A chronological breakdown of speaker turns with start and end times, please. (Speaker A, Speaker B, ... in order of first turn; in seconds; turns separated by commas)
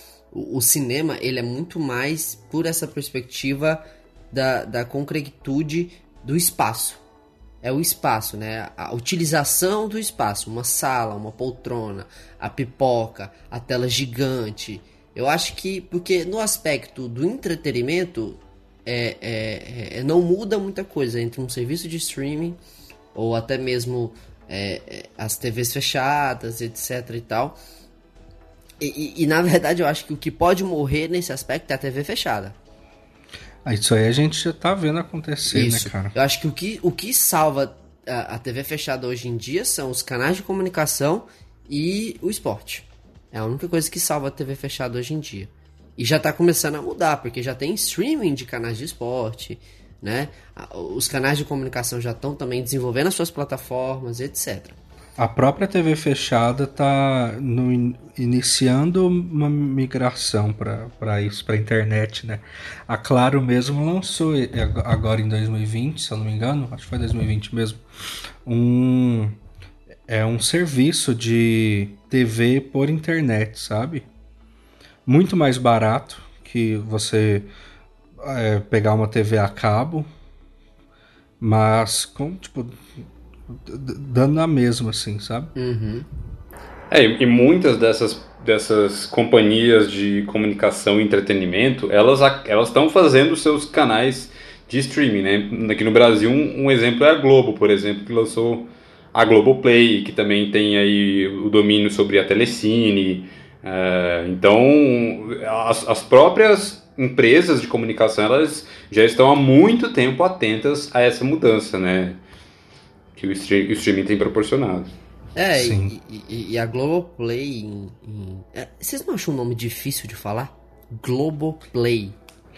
Speaker A: 0.3-7.0, Speaker A: 7.6-22.6, Speaker A: 23.1-27.6, Speaker A: 28.8-32.6, Speaker B: 33.6-36.1, Speaker A: 35.5-54.8, Speaker B: 55.2-67.8, Speaker B: 68.5-69.4, Speaker B: 70.1-74.1, Speaker B: 75.1-77.5, Speaker B: 78.2-80.1, Speaker B: 81.4-82.8, Speaker B: 83.5-85.5, Speaker A: 85.5-86.1, Speaker C: 86.9-112.2, Speaker C: 113.2-114.9, Speaker A: 115.4-122.2, Speaker B: 115.5-115.9